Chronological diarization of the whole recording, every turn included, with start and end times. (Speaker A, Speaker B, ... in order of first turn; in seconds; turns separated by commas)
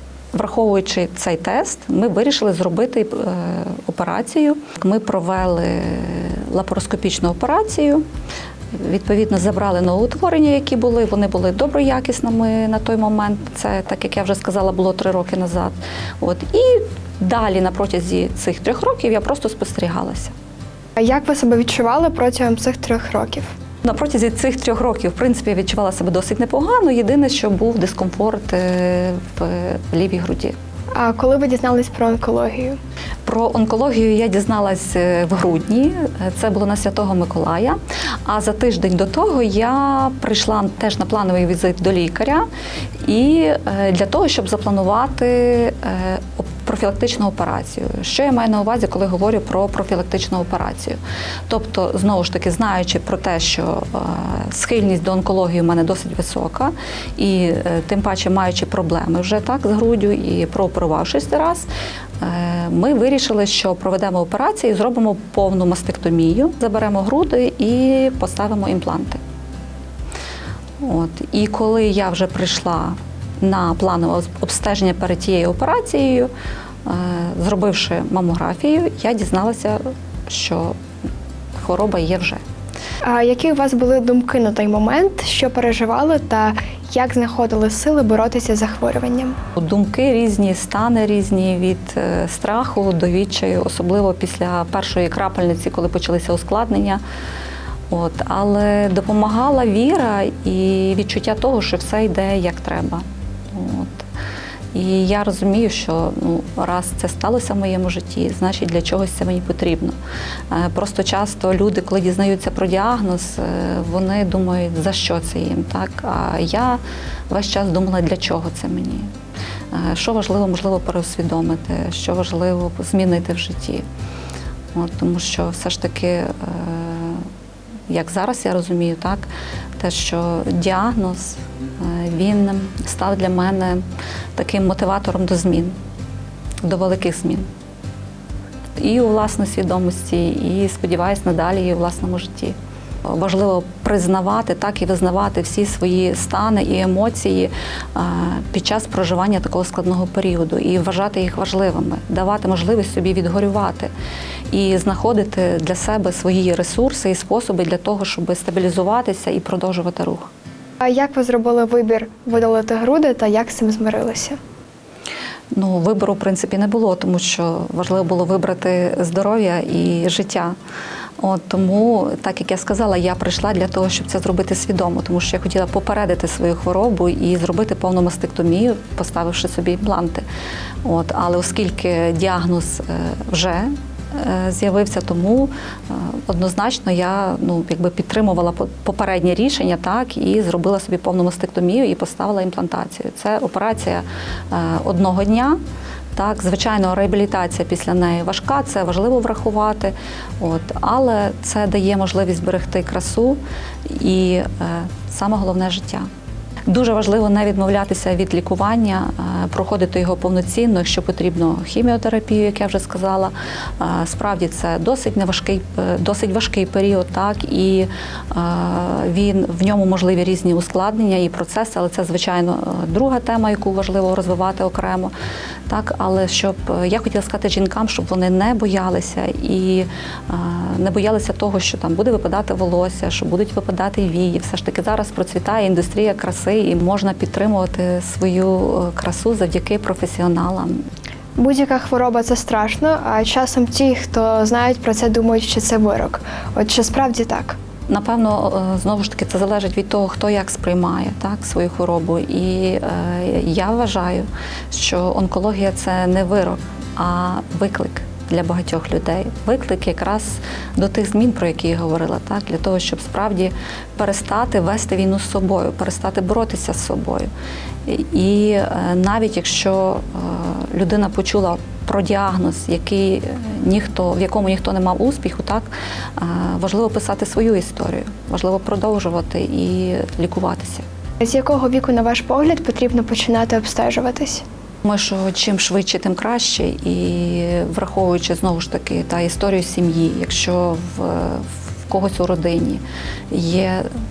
Speaker A: 0.3-8.1, Speaker A: 8.7-20.3, Speaker B: 21.0-23.5, Speaker A: 23.8-30.6, Speaker B: 30.9-32.8, Speaker A: 33.3-42.5, Speaker A: 43.0-61.7, Speaker A: 62.2-69.2, Speaker A: 70.8-76.3, Speaker A: 76.8-80.8, Speaker A: 81.6-82.4, Speaker B: 83.0-89.4, Speaker A: 89.6-97.0, Speaker A: 97.9-104.1, Speaker A: 104.7-110.0, Speaker A: 110.5-119.1, Speaker A: 119.7-123.9, Speaker A: 124.7-127.3, Speaker A: 127.9-129.3, Speaker A: 129.8-133.8, Speaker A: 134.3-135.7, Speaker A: 136.6-137.5, Speaker A: 138.8-153.9, Speaker A: 154.5-160.3, Speaker B: 160.8-164.4, Speaker A: 165.6-170.6, Speaker A: 171.2-180.3, Speaker A: 180.8-195.6, Speaker A: 196.2-206.1, Speaker A: 206.7-225.1, Speaker A: 225.7-240.8, Speaker B: 241.4-247.6, Speaker A: 247.9-267.3, Speaker A: 267.9-280.9, Speaker B: 281.2-284.4, Speaker A: 284.9-293.9